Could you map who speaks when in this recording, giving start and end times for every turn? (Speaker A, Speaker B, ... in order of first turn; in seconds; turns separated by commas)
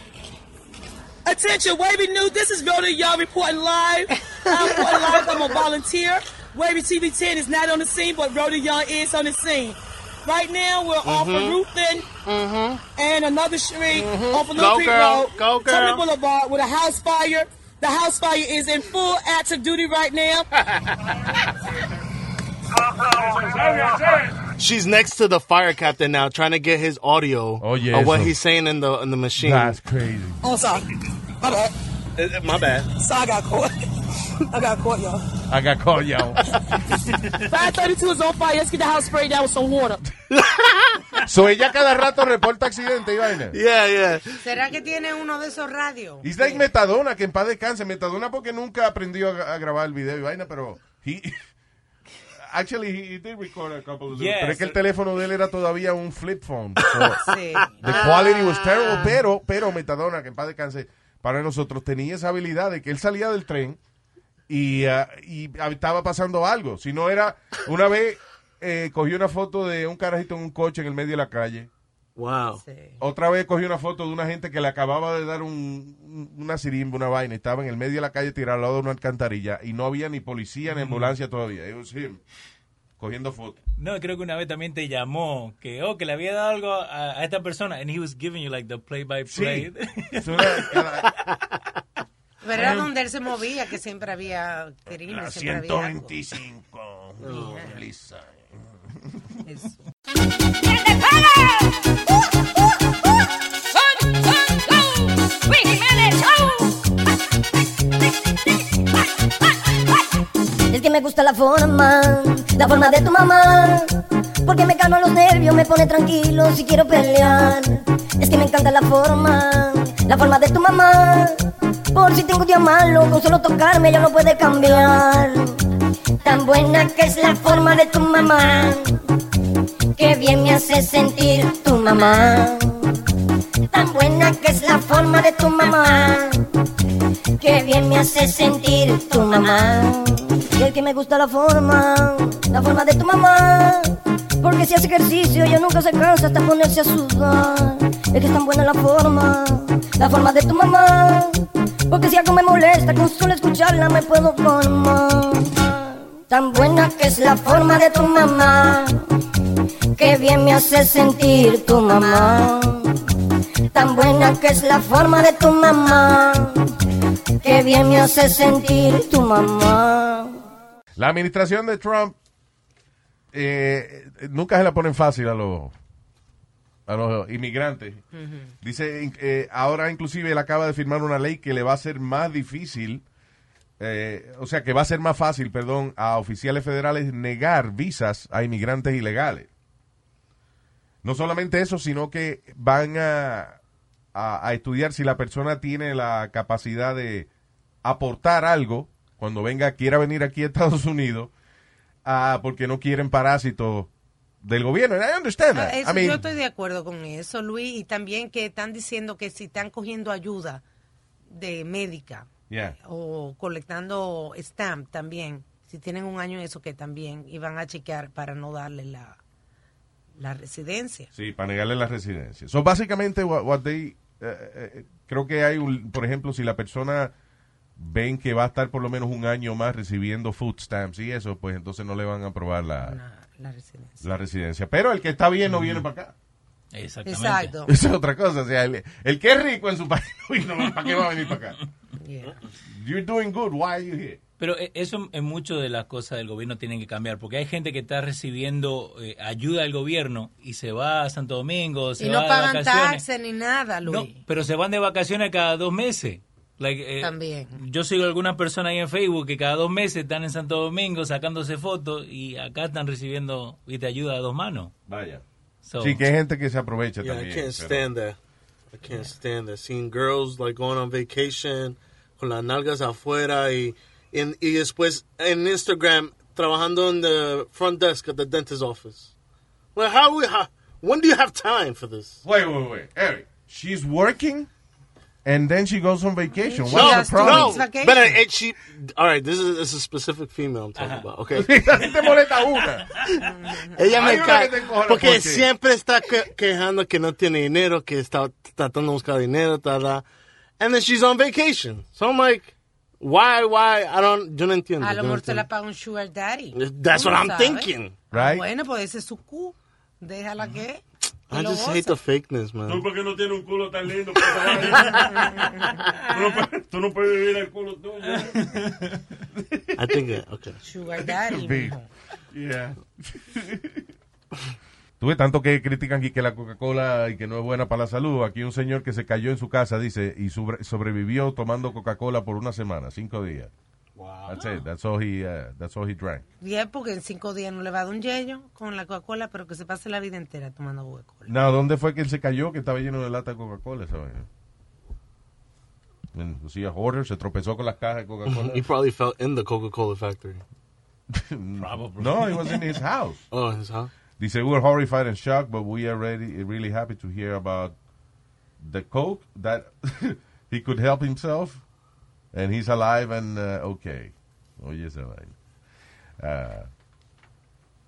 Speaker A: 1.2-12.1, Speaker B: 11.0-11.6, Speaker B: 12.2-12.8, Speaker A: 12.9-20.4, Speaker B: 13.9-16.0, Speaker C: 23.2-24.4, Speaker B: 24.6-29.8, Speaker D: 27.6-28.3, Speaker D: 29.4-30.4, Speaker A: 30.4-30.8, Speaker A: 31.4-31.7, Speaker B: 32.2-32.9, Speaker A: 33.0-33.7, Speaker A: 34.5-35.2, Speaker D: 35.5-36.4, Speaker A: 37.4-40.0, Speaker B: 40.3-40.9, Speaker D: 41.2-43.6, Speaker B: 43.5-44.3, Speaker E: 44.4-46.6, Speaker D: 46.2-51.4, Speaker D: 52.5-57.2, Speaker F: 54.1-54.8, Speaker E: 57.2-58.0, Speaker D: 57.8-63.8, Speaker D: 64.5-71.7, Speaker B: 72.2-72.6, Speaker E: 72.6-73.0, Speaker D: 73.0-82.2, Speaker F: 80.7-81.1, Speaker D: 83.0-83.6, Speaker F: 83.8-90.8, Speaker D: 89.3-91.1, Speaker E: 92.4-96.1, Speaker D: 92.5-92.9, Speaker D: 95.0-98.5, Speaker B: 97.2-97.7, Speaker E: 97.3-97.7, Speaker E: 99.5-99.7, Speaker G: 105.9-106.5, Speaker G: 110.7-125.5, Speaker G: 126.2-129.0, Speaker G: 129.9-133.0, Speaker G: 133.7-136.5, Speaker G: 137.4-159.0, Speaker G: 159.9-163.0, Speaker G: 163.7-166.7, Speaker G: 167.4-170.4, Speaker D: 171.0-172.1, Speaker D: 173.3-175.7, Speaker D: 176.9-178.0, Speaker E: 178.1-178.5, Speaker D: 178.6-183.0, Speaker D: 183.8-189.5, Speaker D: 191.0-193.6, Speaker D: 194.1-197.3, Speaker D: 197.8-201.3, Speaker D: 202.0-203.9, Speaker D: 204.4-206.2, Speaker E: 205.5-210.6, Speaker E: 211.3-212.3, Speaker D: 212.5-212.8, Speaker E: 212.8-219.2, Speaker E: 220.2-221.1, Speaker D: 221.1-227.1, Speaker D: 227.8-233.0, Speaker E: 232.8-234.1, Speaker D: 234.0-236.1, Speaker F: 235.5-235.8, Speaker F: 236.7-237.5, Speaker E: 237.1-237.7, Speaker D: 237.7-241.6, Speaker E: 242.0-242.3, Speaker D: 242.7-244.2, Speaker F: 244.4-253.0, Speaker E: 252.0-254.2, Speaker F: 253.8-264.7, Speaker E: 257.0-257.6, Speaker D: 264.9-265.2, Speaker F: 265.6-266.0, Speaker D: 265.8-267.8, Speaker B: 267.0-268.2, Speaker B: 268.7-279.1, Speaker B: 279.7-282.2, Speaker D: 282.2-284.5, Speaker D: 285.2-287.6, Speaker E: 286.4-288.2, Speaker B: 286.7-291.5, Speaker F: 290.8-291.1, Speaker D: 291.3-292.9, Speaker F: 291.8-292.1, Speaker E: 293.2-293.8, Speaker B: 293.8-300.0, Speaker D: 293.9-295.4, Speaker B: 300.6-305.4, Speaker E: 304.8-312.0, Speaker B: 306.5-307.9, Speaker D: 308.1-308.4, Speaker B: 311.3-312.8, Speaker C: 312.7-315.3, Speaker E: 314.9-316.0, Speaker C: 316.1-318.5, Speaker F: 318.2-318.7, Speaker B: 319.8-320.6, Speaker E: 320.6-321.9, Speaker D: 321.0-321.7, Speaker D: 322.3-323.9, Speaker D: 325.0-333.5, Speaker D: 334.2-336.2, Speaker E: 336.4-341.3, Speaker D: 341.3-344.3, Speaker D: 346.1-348.6, Speaker B: 348.3-350.4, Speaker D: 351.1-353.2, Speaker F: 351.6-352.6, Speaker B: 353.3-353.9, Speaker D: 354.2-357.7, Speaker D: 358.6-361.6, Speaker D: 362.3-365.3, Speaker D: 366.2-366.7